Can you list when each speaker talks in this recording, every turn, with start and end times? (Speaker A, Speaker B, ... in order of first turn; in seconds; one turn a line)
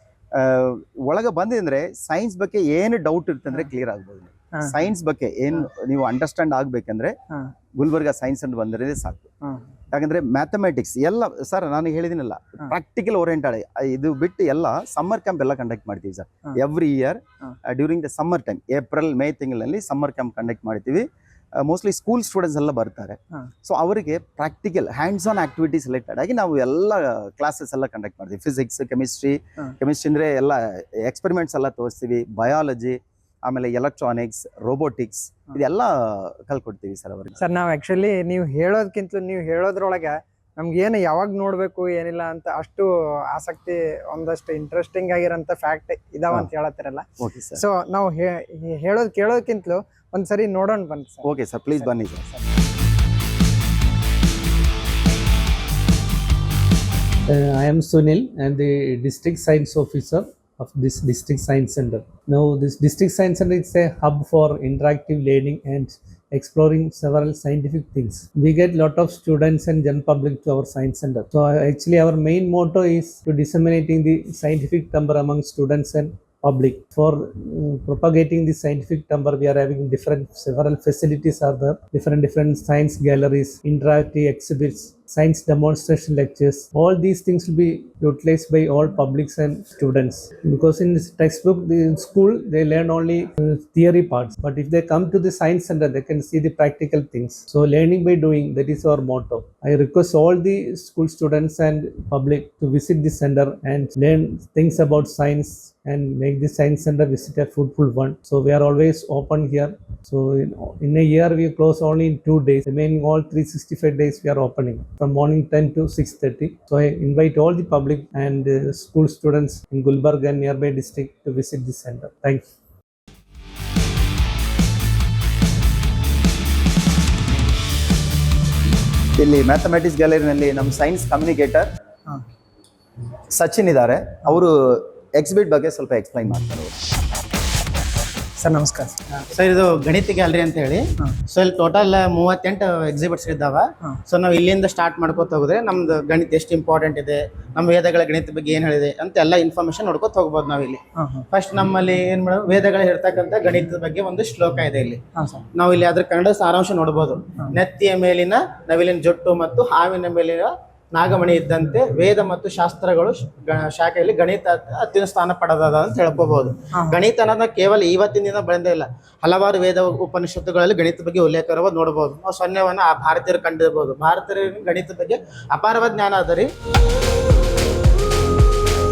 Speaker A: 0.3-7.2
Speaker A: 7.8-9.3
Speaker A: 9.9-37.4
Speaker B: 37.4-51.3
Speaker A: 47.2-47.6
Speaker A: 51.2-52.3
Speaker C: 57.3-122.5
Speaker A: 129.2-131.7
Speaker A: 133.3-136.7
Speaker B: 138.4-139.0
Speaker D: 139.2-155.0
Speaker B: 151.0-151.3
Speaker B: 155.2-155.4
Speaker D: 155.6-176.5
Speaker B: 166.7-167.0